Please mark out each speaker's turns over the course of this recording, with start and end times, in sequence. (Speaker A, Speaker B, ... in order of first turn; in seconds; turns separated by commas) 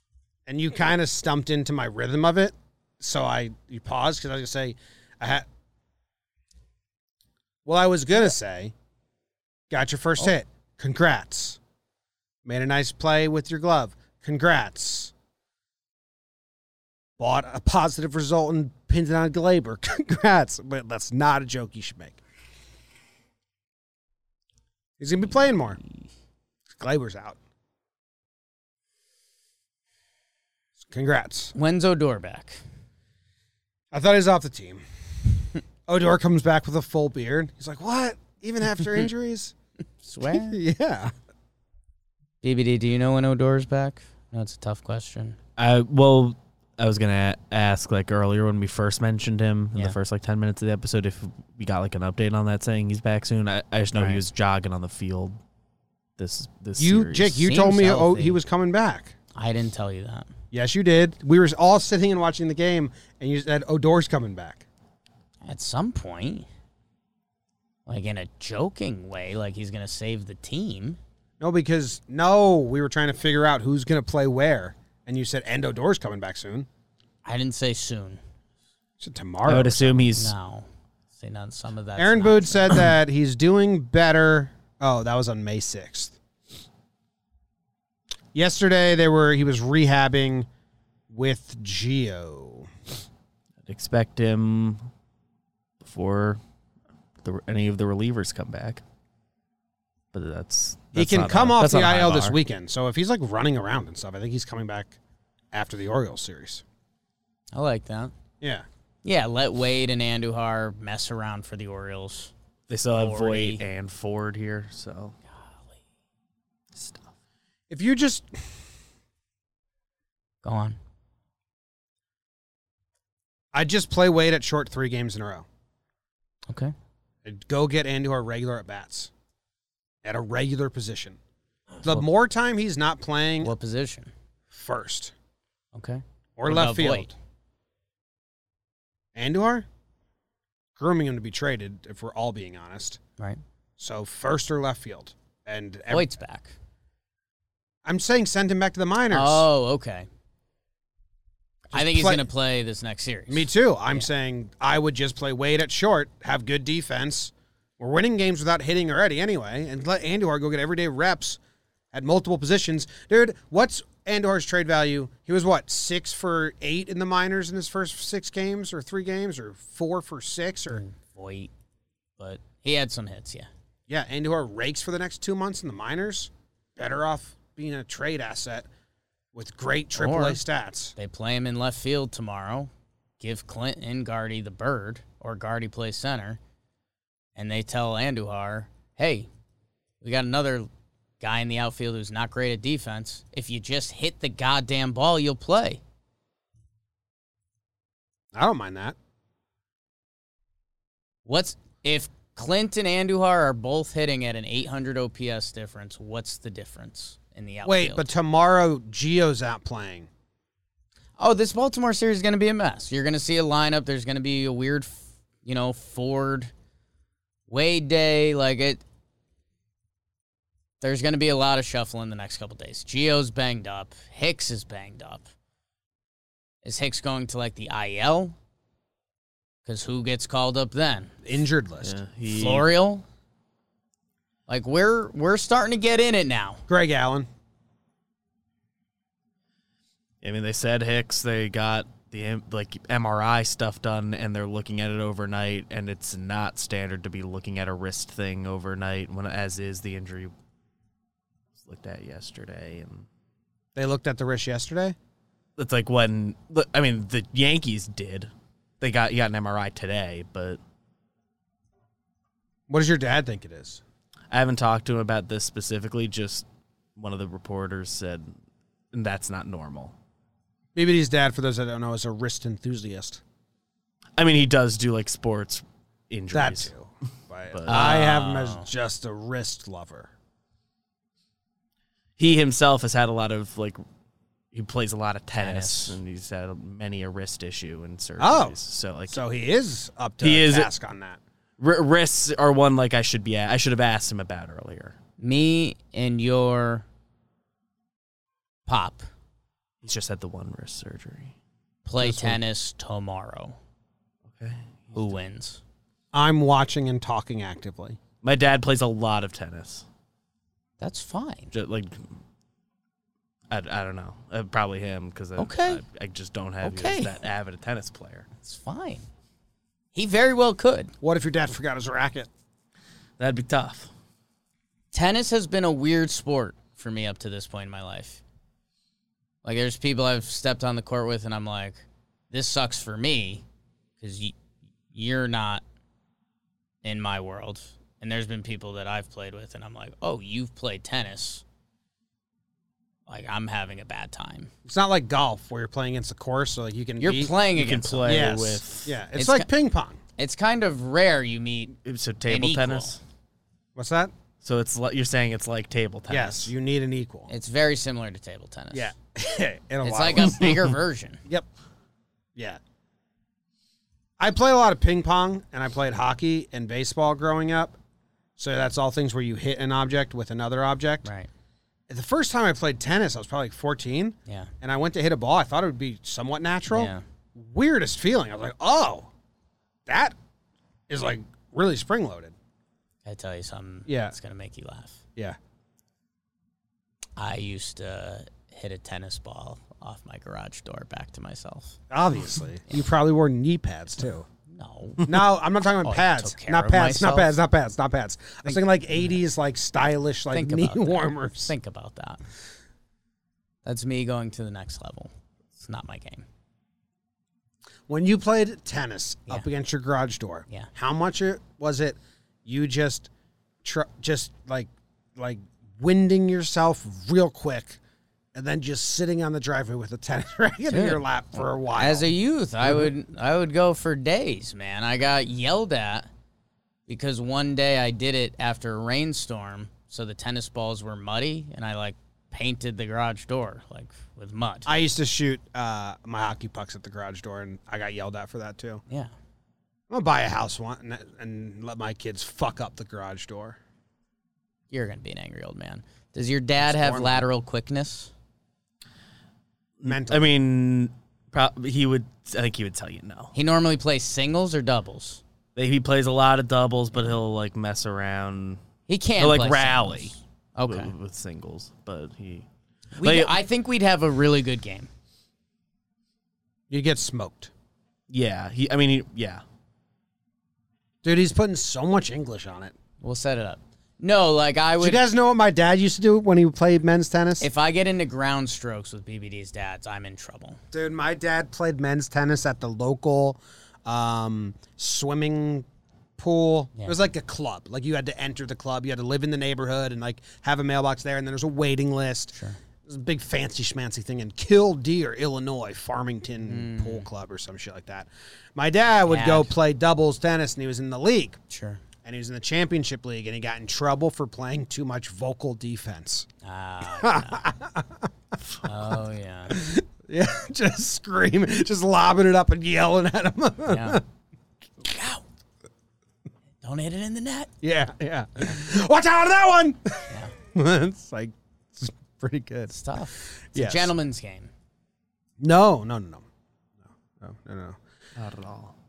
Speaker A: 0.5-5.5, Speaker A: 7.6-8.7, Speaker A: 9.7-11.6, Speaker A: 12.4-15.1, Speaker A: 17.2-22.2, Speaker A: 25.0-25.8, Speaker A: 26.7-27.4, Speaker A: 30.8-31.5, Speaker B: 31.5-32.6, Speaker A: 33.9-34.8, Speaker A: 35.9-39.5, Speaker B: 40.0-40.6, Speaker A: 40.3-41.1, Speaker B: 42.4-45.4, Speaker C: 45.6-55.4, Speaker B: 53.9-54.2, Speaker C: 56.2-57.4, Speaker A: 56.8-59.1, Speaker B: 57.4-58.4, Speaker B: 59.3-60.3, Speaker A: 60.5-64.6, Speaker B: 65.4-66.5, Speaker B: 67.8-71.0, Speaker A: 71.4-76.7, Speaker B: 77.2-78.2, Speaker A: 79.0-80.0, Speaker C: 79.5-80.3, Speaker B: 80.2-82.8, Speaker A: 82.0-86.2, Speaker A: 88.3-90.5, Speaker A: 91.1-92.7, Speaker C: 93.7-94.9, Speaker C: 95.8-96.4, Speaker C: 97.2-98.8, Speaker C: 100.1-102.3, Speaker A: 100.9-105.0, Speaker A: 105.5-106.6, Speaker B: 107.5-108.1, Speaker A: 108.4-108.7, Speaker B: 109.0-112.3, Speaker C: 112.7-115.1, Speaker B: 113.0-113.6, Speaker C: 116.7-117.1, Speaker A: 117.7-118.3, Speaker B: 120.4-120.8, Speaker A: 123.5-125.5, Speaker B: 126.5-126.7, Speaker A: 127.2-129.1, Speaker A: 130.0-131.2, Speaker A: 131.8-133.5, Speaker B: 133.4-134.1, Speaker A: 134.5-135.1, Speaker B: 135.7-137.1, Speaker A: 136.4-137.1, Speaker A: 139.1-139.7, Speaker A: 140.8-143.0, Speaker A: 143.8-146.1, Speaker B: 145.9-146.5, Speaker A: 147.8-149.5, Speaker B: 149.1-150.1, Speaker A: 151.7-152.3, Speaker B: 151.7-154.1, Speaker A: 153.3-161.4, Speaker A: 161.9-170.8, Speaker B: 170.7-171.5, Speaker B: 172.2-173.5, Speaker A: 173.9-178.7, Speaker A: 179.3-180.9, Speaker B: 180.0-180.4, Speaker B: 180.9-186.4, Speaker B: 187.3-189.3, Speaker B: 190.0-190.7, Speaker B: 191.2-195.8, Speaker A: 198.3-198.9, Speaker B: 201.3-208.1, Speaker A: 207.6-210.1, Speaker B: 211.2-216.5, Speaker B: 217.5-218.8, Speaker B: 220.8-225.3, Speaker B: 226.6-228.3, Speaker B: 229.6-231.1, Speaker A: 231.2-232.0, Speaker C: 231.8-232.7, Speaker B: 232.3-233.0, Speaker B: 234.5-236.6, Speaker A: 236.7-237.3, Speaker C: 240.2-250.3, Speaker C: 251.6-253.1, Speaker A: 253.7-254.9, Speaker C: 255.6-260.6, Speaker A: 262.7-263.8, Speaker C: 264.3-266.4, Speaker C: 267.0-268.3, Speaker C: 268.9-269.9, Speaker A: 270.7-273.2, Speaker C: 274.2-276.7, Speaker A: 276.3-280.1, Speaker C: 277.5-277.8, Speaker B: 277.7-278.7, Speaker C: 282.2-283.8, Speaker C: 284.5-289.2, Speaker B: 285.4-286.0, Speaker A: 288.2-288.6, Speaker A: 289.1-291.2, Speaker C: 290.2-290.7, Speaker C: 291.6-294.9, Speaker B: 295.2-296.9, Speaker B: 298.6-299.1, Speaker C: 299.8-301.3, Speaker B: 301.8-303.6, Speaker A: 302.0-302.4, Speaker C: 304.3-305.1, Speaker B: 304.9-305.6, Speaker A: 306.1-308.0, Speaker C: 308.2-309.8, Speaker B: 310.8-311.5, Speaker C: 311.5-312.0, Speaker C: 313.5-318.3, Speaker B: 315.4-315.8, Speaker B: 316.6-317.1, Speaker B: 318.4-319.1, Speaker B: 319.9-320.9, Speaker A: 321.0-322.3, Speaker C: 323.2-323.9, Speaker B: 324.9-328.2, Speaker B: 329.4-333.4, Speaker B: 334.0-334.4, Speaker B: 334.9-335.6, Speaker B: 336.8-341.4, Speaker B: 343.1-344.5, Speaker A: 344.6-347.3, Speaker B: 347.0-348.2, Speaker C: 347.6-348.9, Speaker A: 348.1-350.0, Speaker B: 349.1-349.5, Speaker B: 350.2-351.7, Speaker C: 351.8-353.0, Speaker B: 352.3-353.0, Speaker A: 353.7-354.1, Speaker C: 354.4-356.5, Speaker A: 356.1-357.3, Speaker B: 357.3-358.9, Speaker A: 358.7-360.5, Speaker B: 359.8-361.2, Speaker C: 360.3-360.7, Speaker A: 362.3-362.6, Speaker A: 364.2-367.8, Speaker A: 368.4-371.1, Speaker B: 371.0-371.3, Speaker A: 371.9-379.1, Speaker B: 376.7-377.0, Speaker A: 379.9-380.1, Speaker A: 380.9-382.3, Speaker B: 383.1-385.0, Speaker A: 383.9-384.1, Speaker B: 387.2-391.8, Speaker A: 391.9-394.3, Speaker B: 394.5-395.1, Speaker A: 395.1-401.5, Speaker B: 395.8-397.3, Speaker B: 398.4-399.0, Speaker B: 400.3-402.2, Speaker B: 403.6-406.2, Speaker A: 407.9-413.1, Speaker A: 413.6-417.8, Speaker A: 418.3-422.1, Speaker B: 420.7-421.0, Speaker B: 421.7-426.1, Speaker B: 426.9-434.7, Speaker A: 434.6-438.8, Speaker A: 439.9-443.6, Speaker B: 444.7-448.1, Speaker A: 446.6-447.2, Speaker C: 449.8-453.3, Speaker A: 449.8-450.3, Speaker B: 453.3-455.2, Speaker C: 455.6-458.6, Speaker B: 458.9-460.9, Speaker C: 459.2-462.4, Speaker B: 462.9-464.9, Speaker C: 463.0-463.4, Speaker A: 466.7-467.5, Speaker C: 468.1-469.4, Speaker A: 471.0-472.7, Speaker B: 473.0-475.0, Speaker A: 474.8-477.4, Speaker B: 477.4-480.6, Speaker A: 480.7-485.6, Speaker A: 486.2-492.3, Speaker B: 486.8-487.0, Speaker B: 492.3-492.6, Speaker A: 492.9-501.4, Speaker B: 496.5-497.1, Speaker B: 499.1-499.5, Speaker B: 501.5-501.8, Speaker A: 502.0-506.3, Speaker B: 506.4-507.5, Speaker A: 506.9-508.1, Speaker B: 508.6-509.6, Speaker A: 509.5-514.0, Speaker B: 513.6-514.0, Speaker B: 514.8-515.2, Speaker B: 516.6-517.5, Speaker A: 517.6-522.7, Speaker B: 522.7-524.5, Speaker A: 523.4-523.9, Speaker A: 525.4-526.2, Speaker A: 526.9-527.8, Speaker C: 528.1-528.7